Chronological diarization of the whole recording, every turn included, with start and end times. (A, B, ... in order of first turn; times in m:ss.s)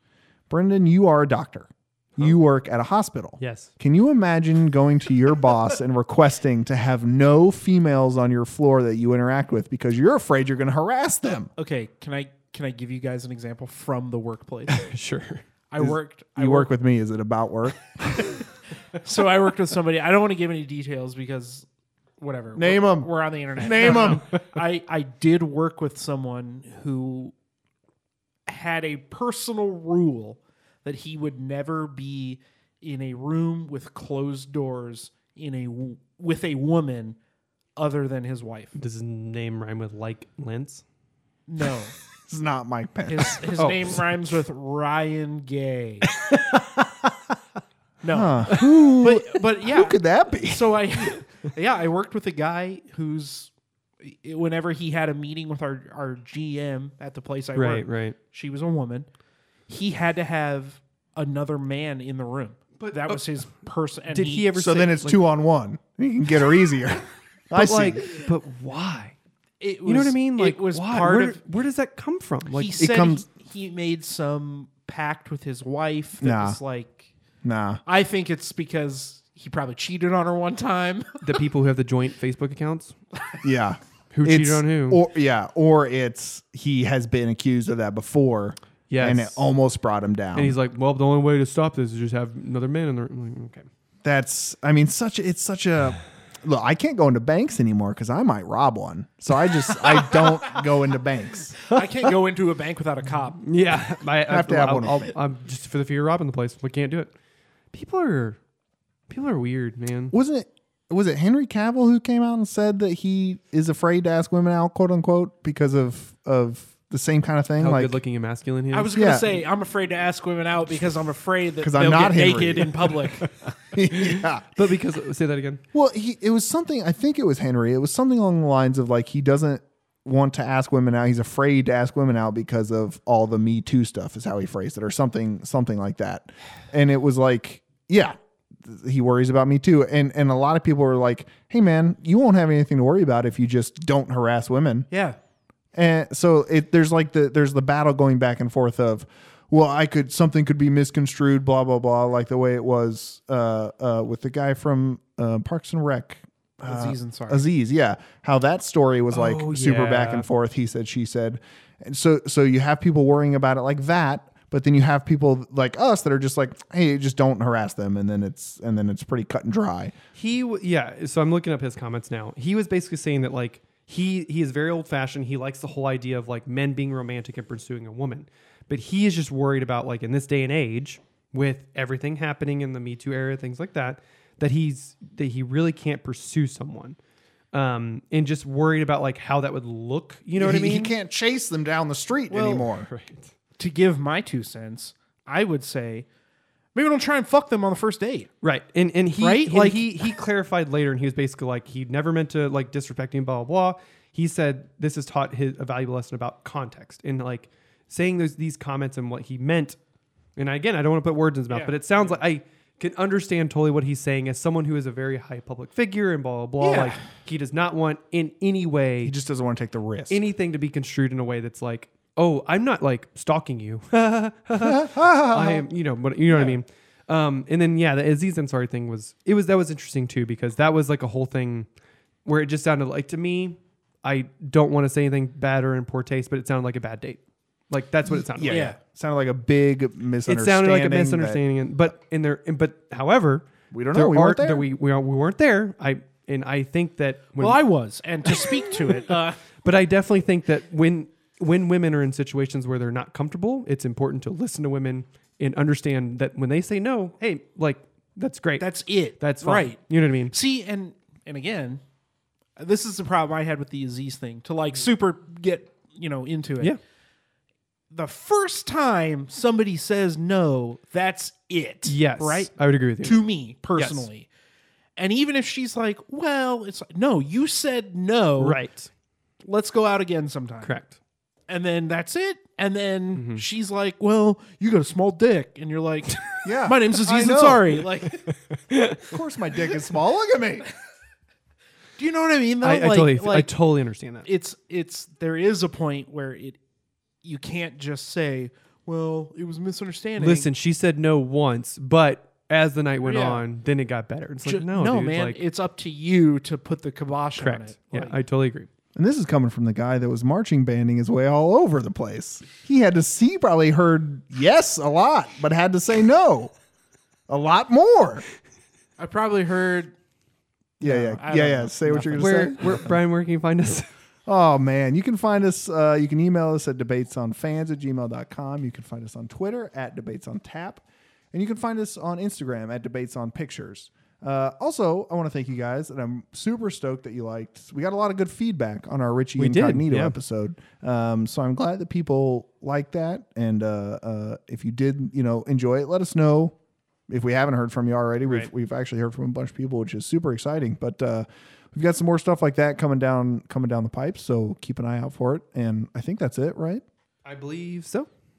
0:00.5-0:11.5 A
0:03.4-0:03.7 B
0:11.6-0:14.8 C
0:14.7-0:15.4 B
0:15.7-0:16.7 C
0:15.8-0:18.4 A
0:19.0-0:21.7 C
0:22.2-0:27.3 C
0:22.6-0:24.2 A
0:28.5-0:37.2 C
0:37.8-0:38.8 C
0:38.8-0:40.8 B
0:41.5-0:41.9 C
0:42.3-0:43.4 A
0:43.1-0:46.1 C
0:43.6-0:44.0 B
0:46.1-0:46.9 B
0:48.0-0:59.1 C
0:48.1-0:50.8 A
0:48.5-0:48.8 B
0:57.6-0:58.2 B
0:59.7-1:04.5 C
1:02.8-1:03.3 B
1:04.1-1:05.2 B
1:04.5-1:08.1 A
1:07.5-1:09.2 B
1:09.6-1:11.4 C
1:09.8-1:12.9 B
1:12.5-1:17.1 C
1:12.8-1:13.2 A
1:16.2-1:16.6 A
1:17.4-1:17.8 A
1:17.9-1:21.3 C
1:21.2-1:22.9 B
1:23.4-1:30.6 A
1:24.1-1:25.0 B
1:28.9-1:29.4 B
1:30.4-1:33.7 B
1:34.0-1:41.6 A
1:41.6-1:43.4 C
1:43.4-1:47.1 B
1:44.3-1:45.2 A
1:47.7-1:48.4 B
1:49.1-1:50.2 B
1:50.1-1:58.0 A
1:57.6-1:58.9 B
1:58.7-2:03.3 C
1:58.9-1:59.3 A
2:01.6-2:02.9 A
2:03.7-2:04.6 A
2:03.9-2:05.6 B
2:05.7-2:24.9 A
2:24.9-2:25.2 C
2:25.8-2:49.9 A
2:36.6-2:37.4 C
2:39.1-2:40.3 B
2:50.2-3:07.0 B
3:07.5-3:10.9 B
3:10.4-3:12.9 A
3:12.3-3:12.7 C
3:12.8-3:13.3 B
3:13.6-3:16.1 C
3:16.8-3:18.3 C
3:18.4-3:29.8 B
3:19.2-3:20.2 C
3:30.4-3:39.1 B
3:31.5-3:32.2 C
3:36.6-3:37.0 C
3:39.0-3:40.2 A
3:40.1-3:51.7 B
3:44.6-3:45.6 A
3:46.3-3:46.6 C
3:52.2-3:58.8 B
3:58.1-4:01.4 A
3:58.4-3:58.8 C
4:00.3-4:07.6 B
4:03.7-4:04.7 A
4:07.4-4:09.4 C
4:08.3-4:09.1 B
4:09.6-4:20.3 B
4:18.6-4:21.8 C
4:22.6-4:26.8 C
4:27.9-4:32.5 C
4:31.8-4:33.2 B
4:33.0-4:34.3 C
4:33.8-4:34.1 B
4:35.0-4:38.6 C
4:38.4-4:38.9 B
4:39.4-4:40.7 C
4:40.6-4:41.0 B
4:41.5-4:48.2 C
4:43.2-4:43.4 B
4:46.4-4:47.7 A
4:48.3-4:49.2 B
4:49.0-4:50.7 A
4:52.0-4:53.5 C
4:52.6-4:54.3 B
4:54.2-4:56.6 C
4:57.2-5:00.5 C
5:00.2-5:05.4 B
5:03.0-5:03.4 C
5:04.5-5:08.1 C
5:07.4-5:08.7 B
5:09.0-5:16.5 A
5:17.3-5:18.2 A
5:19.0-5:19.9 C
5:20.8-5:22.9 C
5:20.8-5:23.0 A
5:22.2-5:23.9 B
5:24.3-5:46.6 A
5:39.4-5:40.2 B
5:47.1-5:56.8 A
5:57.2-5:58.1 B